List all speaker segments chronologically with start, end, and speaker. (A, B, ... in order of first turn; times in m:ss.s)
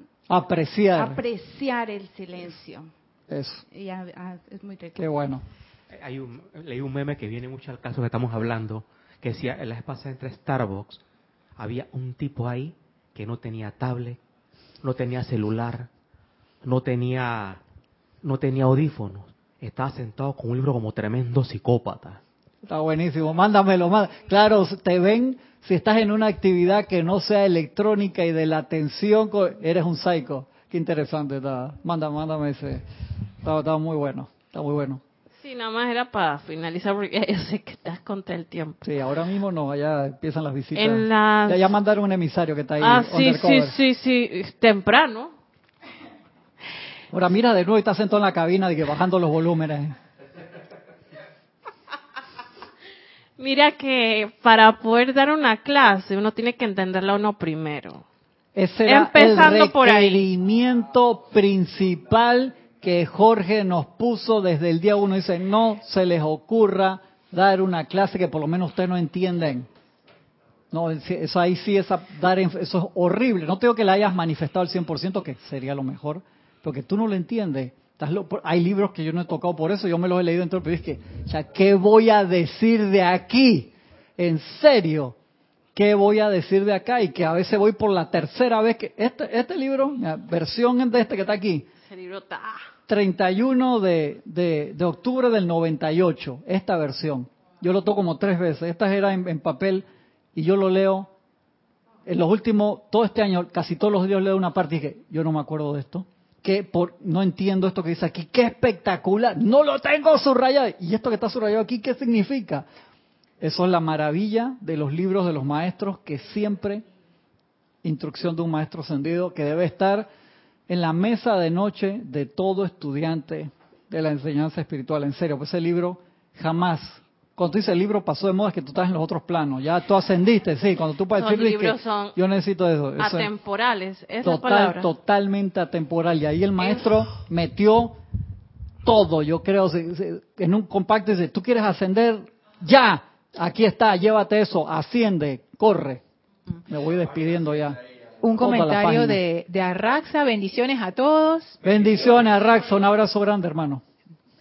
0:00.3-0:01.2 A
0:00.9-0:02.9 B
0:03.3-0:03.6 A
0:03.7-0:05.0 B
0:04.9-0:05.4 A
0:05.9-0:11.0 C
0:11.6-0:14.2 C
0:14.8-0:15.9 C
0:16.6-0:17.6 C
0:18.2-0:22.2 C
0:22.6-0:32.8 A
0:33.4-0:35.0 A
0:35.4-0:38.8 D
0:38.8-0:43.8 A
0:40.7-0:41.8 D
0:42.8-0:45.3 D
0:47.1-0:49.9 A
0:53.4-0:58.0 D
0:58.5-1:09.7 A
0:58.9-1:00.3 D
1:10.7-1:25.2 A
1:25.7-1:31.7 A
1:31.8-1:32.6 D
1:32.9-1:41.1 A
1:42.0-1:52.6 A
1:53.4-1:56.8 A
1:57.8-2:00.1 A
2:00.7-2:13.3 A
2:11.1-2:12.2 D
2:13.0-2:14.9 D
2:14.2-2:18.0 A
2:16.6-2:16.8 D
2:18.8-2:26.0 A
2:26.7-2:27.8 A
2:28.2-2:31.6 E
2:28.4-2:29.2 A
2:31.6-2:33.8 A